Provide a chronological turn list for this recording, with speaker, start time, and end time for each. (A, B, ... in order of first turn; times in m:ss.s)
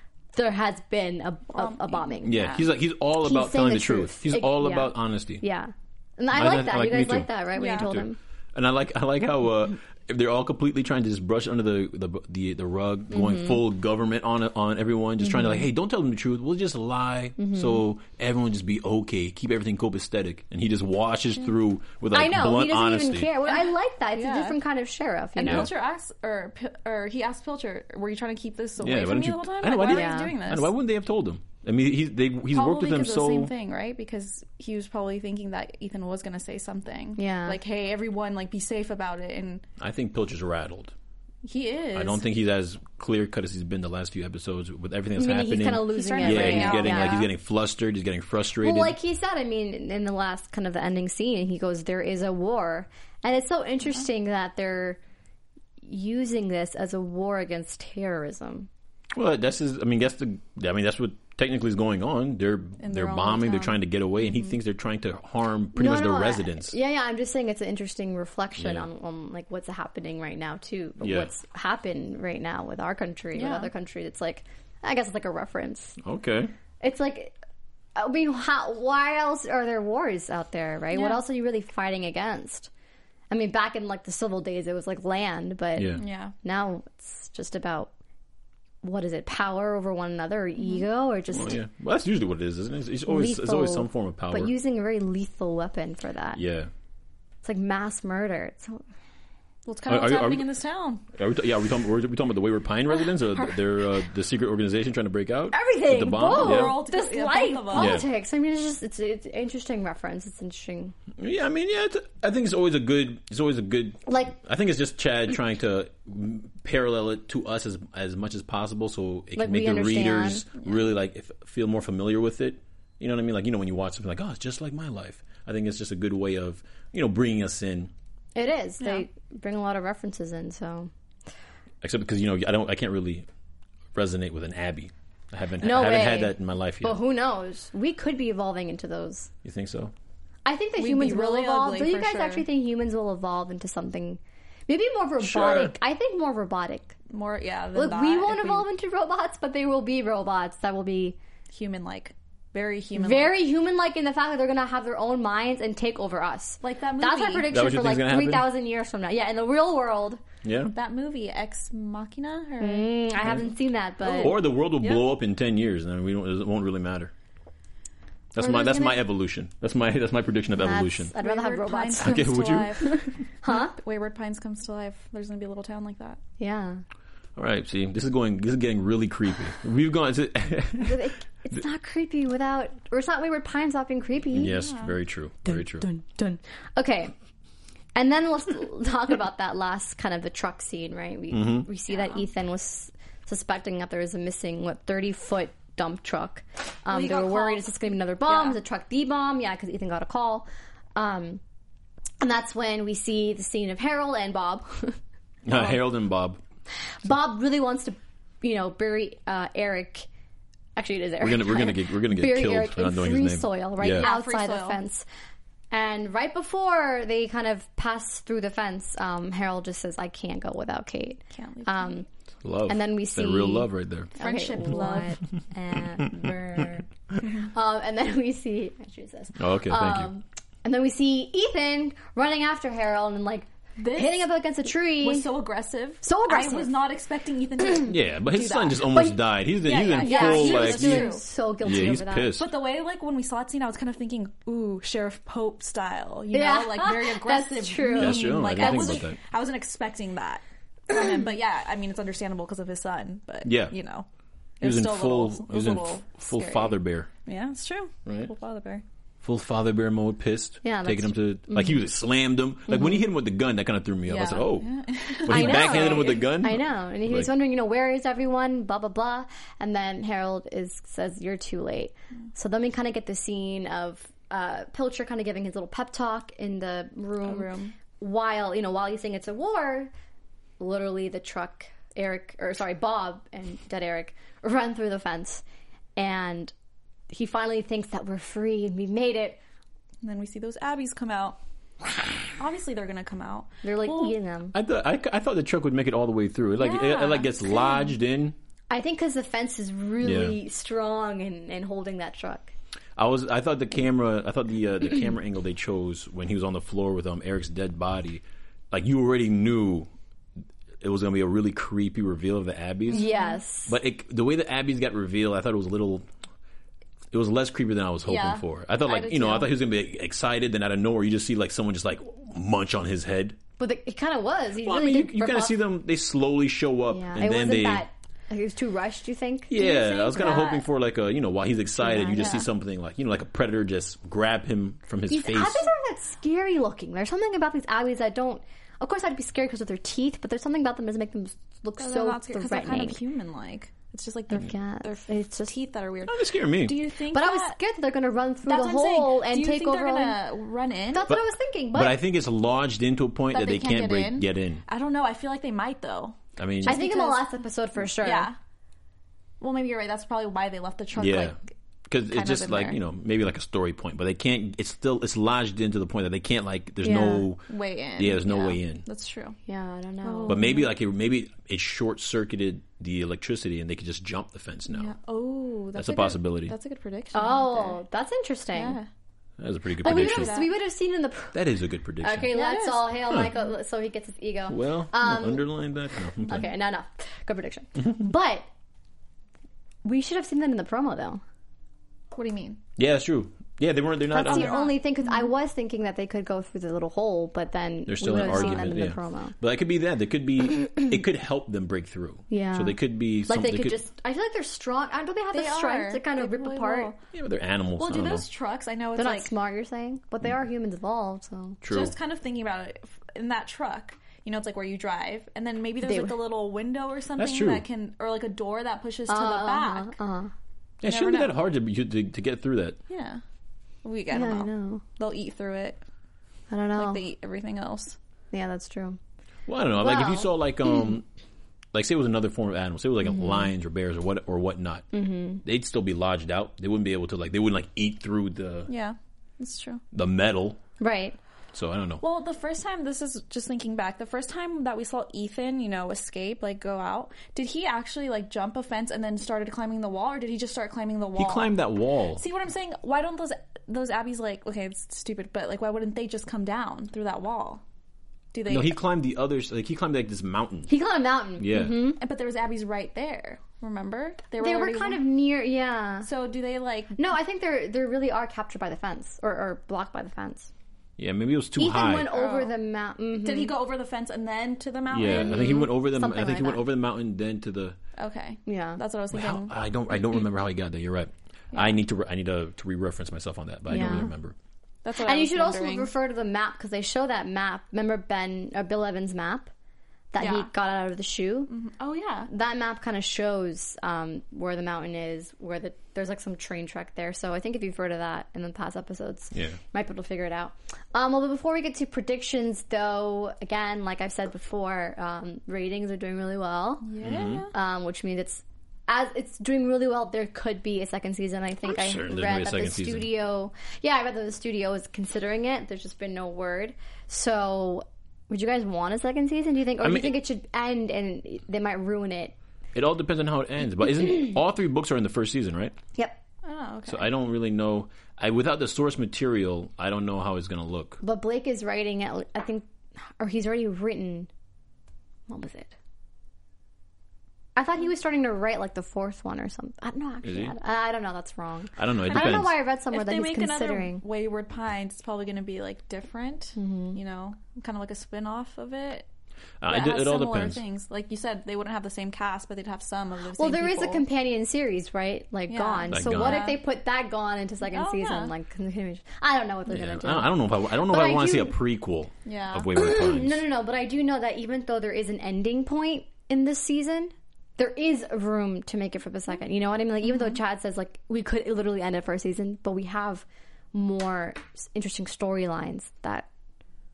0:00.3-0:02.4 A
0:01.5-0:02.7 B
0:02.2-0:05.4 C
0:03.2-0:08.2 A
0:06.3-0:23.3 C
0:07.6-0:07.9 B
0:13.1-0:13.6 A
0:15.2-0:15.6 A
0:17.4-0:17.8 A
0:22.1-0:25.7 A
0:23.5-0:24.6 B
0:25.4-0:30.7 B
0:25.4-0:25.7 C
0:28.8-0:33.5 C
0:29.9-0:30.3 A
0:32.5-0:39.6 B
0:37.2-0:37.6 A
0:39.8-0:40.9 C
0:41.4-0:42.2 B
0:41.9-0:49.0 C
0:45.2-0:47.3 A
0:45.9-0:47.3 B
0:48.6-0:55.0 A
0:55.8-0:58.7 A
0:59.1-1:06.7 C
1:02.8-1:03.8 B
1:05.7-1:16.0 A
1:08.6-1:08.9 C
1:11.0-1:11.3 C
1:13.4-1:13.7 B
1:16.0-1:16.5 C
1:16.8-1:17.4 A
1:18.0-1:22.7 A
1:20.9-1:21.2 B
1:23.3-1:27.9 A
1:25.8-1:26.0 C
1:26.0-1:26.3 B
1:28.8-1:31.6 A
1:31.3-1:34.5 C
1:33.1-1:36.4 A
1:36.4-1:36.7 C
1:37.4-1:38.8 A
1:39.7-1:41.0 B
1:39.9-1:40.5 C
1:41.1-1:46.8 C
1:43.1-1:43.7 B
1:45.5-1:51.0 A
1:46.2-1:48.0 B
1:47.7-1:48.1 C
1:51.2-2:07.9 C
1:54.1-1:54.4 A
1:59.4-2:00.5 A
2:08.4-2:10.9 A
2:08.8-2:09.0 B
2:11.8-2:13.3 C
2:13.9-2:17.0 C
2:15.6-2:19.3 A
2:19.4-2:19.9 C
2:20.4-2:27.0 A
2:20.8-2:22.4 B
2:25.2-2:25.8 C
2:27.1-2:28.7 B
2:27.8-2:31.2 A
2:31.5-2:33.4 B
2:33.0-2:40.2 A
2:36.6-2:37.5 B
2:37.5-2:38.5 C
2:40.4-2:40.7 C
2:40.7-2:43.0 B
2:42.6-2:44.4 A
2:44.0-2:45.0 B
2:44.2-2:47.1 C
2:48.3-2:51.1 C
2:48.4-2:49.0 A
2:50.6-2:52.3 A
2:51.2-2:56.2 B
2:52.0-2:53.1 C
2:52.9-2:53.8 A
2:56.4-2:56.8 A
2:57.4-3:01.1 C
3:00.8-3:04.6 A
3:04.3-3:05.9 C
3:04.5-3:05.0 B
3:05.5-3:07.1 A
3:08.0-3:21.4 A
3:11.3-3:11.7 C
3:16.9-3:17.7 B
3:18.3-3:18.6 B
3:22.2-3:25.0 A
3:25.4-3:26.4 C
3:27.0-3:30.1 A
3:30.8-3:35.0 A
3:31.2-3:34.1 C
3:33.9-3:34.8 B
3:35.7-3:42.1 A
3:41.3-3:42.0 B
3:42.4-3:44.1 C
3:42.7-3:46.9 A
3:44.2-3:45.1 B
3:47.4-3:55.3 A
3:49.4-3:50.1 C
3:53.8-3:54.3 B
3:55.0-3:58.9 B
3:56.0-3:56.8 A
3:57.8-4:02.5 C
3:58.9-3:59.2 A
3:59.6-4:01.2 B
4:00.0-4:02.4 A
4:02.3-4:14.1 B
4:06.3-4:08.9 A
4:08.0-4:09.2 C
4:13.4-4:13.8 C
4:14.6-4:18.8 B
4:14.6-4:17.1 C
4:19.2-4:24.7 C
4:20.6-4:21.8 A
4:22.7-4:23.0 A
4:24.1-4:26.2 B
4:25.2-4:27.3 C
4:25.3-4:39.9 A
4:37.2-4:37.8 B
4:40.6-4:45.4 A
4:46.0-4:46.5 A
4:47.1-4:49.4 A
4:50.0-4:51.4 B
4:52.3-4:54.2 B
4:53.6-4:54.6 A
4:54.5-4:58.4 C
4:56.6-4:57.4 B
4:58.7-5:02.5 A
5:00.0-5:00.4 C
5:03.0-5:09.9 C
5:10.8-5:13.1 C
5:12.9-5:13.8 A
5:12.9-5:13.4 B
5:13.7-5:16.1 C
5:17.1-5:23.4 C
5:18.1-5:19.6 B
5:23.6-5:25.6 A
5:24.6-5:27.8 C
5:26.9-5:30.3 A
5:29.5-5:35.7 C
5:29.6-5:30.6 B
5:31.8-5:32.4 A
5:32.2-5:32.5 B
5:35.1-5:43.0 A
5:41.8-5:47.6 B
5:44.3-5:45.5 A
5:46.1-5:46.8 C
5:47.1-5:50.2 A
5:48.4-5:51.1 B
5:50.9-5:52.0 A
5:51.7-5:54.6 C
5:53.3-5:58.4 B
5:56.4-5:56.8 C
5:56.6-5:58.3 A
5:59.4-6:01.4 B
6:01.0-6:01.4 C
6:01.9-6:08.8 C
6:02.1-6:02.8 B
6:06.8-6:07.3 A
6:07.5-6:09.4 B
6:09.5-6:10.5 A
6:10.0-6:10.7 B
6:10.3-6:14.9 C
6:14.7-6:17.8 B
6:15.8-6:16.6 C
6:17.1-6:18.8 A
6:18.5-6:18.9 B
6:19.4-6:20.4 C
6:19.8-6:20.5 B
6:19.8-6:21.4 A
6:21.3-6:22.3 C
6:22.0-6:25.5 A
6:22.3-6:23.0 B
6:24.5-6:26.5 C
6:26.2-6:28.5 A
6:29.8-6:31.2 A
6:32.2-6:32.6 B
6:32.8-6:34.6 C
6:34.1-6:39.4 A
6:34.2-6:35.2 B
6:37.9-6:43.8 C
6:38.3-6:38.6 B
6:42.3-6:46.9 A
6:45.3-6:47.0 B
6:47.1-6:48.2 C
6:47.8-6:49.3 B
6:49.0-6:51.6 A
6:51.6-6:52.0 C
6:51.7-6:59.9 B
6:55.8-6:56.2 A
6:57.2-6:57.7 C
6:59.1-7:00.3 A
7:00.8-7:02.8 C
7:00.8-7:01.4 B
7:02.9-7:03.2 B
7:03.8-7:05.8 B
7:04.1-7:04.8 A
7:06.5-7:07.0 A
7:06.8-7:08.0 B
7:08.3-7:09.0 A
7:09.5-7:11.0 C
7:09.8-7:10.3 A
7:11.7-7:14.9 C
7:14.9-7:15.4 A
7:15.4-7:18.7 C
7:18.7-7:19.8 B
7:19.9-7:20.6 C
7:20.8-7:21.2 A
7:21.5-7:22.0 C
7:22.0-7:31.6 B
7:31.2-7:32.2 C
7:32.1-7:37.6 B
7:38.3-7:38.8 B
7:38.5-7:40.7 C
7:40.7-7:42.0 A
7:41.4-7:41.9 C
7:42.0-7:45.0 B
7:44.4-7:46.1 A
7:46.0-7:47.0 B
7:47.0-7:50.5 A
7:51.0-7:52.1 C
7:51.6-7:53.5 A
7:52.1-7:52.5 B
7:53.2-7:55.6 B
7:54.9-7:57.8 C
7:55.0-7:56.6 A
7:58.0-7:59.5 B
7:58.5-7:58.8 A
7:59.1-8:04.4 C
8:03.7-8:04.1 A
8:04.8-8:05.9 B
8:05.0-8:09.5 A
8:10.1-8:11.5 A
8:10.2-8:10.5 B
8:11.5-8:12.3 B
8:12.3-8:26.9 A
8:19.3-8:19.6 C
8:26.8-8:27.5 B
8:27.0-8:27.4 C
8:27.5-8:42.4 A
8:31.6-8:33.1 C
8:39.8-8:40.2 C
8:42.7-8:45.8 C
8:46.4-8:47.1 B
8:46.9-8:51.0 C
8:51.0-8:54.3 A
8:55.3-8:55.7 A
8:57.6-9:04.0 A
9:00.2-9:00.5 C
9:01.8-9:02.6 C
9:02.1-9:09.1 B
9:06.6-9:07.0 A
9:09.6-9:10.6 C
9:09.7-9:14.0 B
9:13.4-9:21.6 A
9:15.5-9:16.6 B
9:15.9-9:16.4 C
9:17.7-9:18.3 B
9:19.7-9:23.4 C
9:22.2-9:22.7 B
9:22.7-9:36.3 A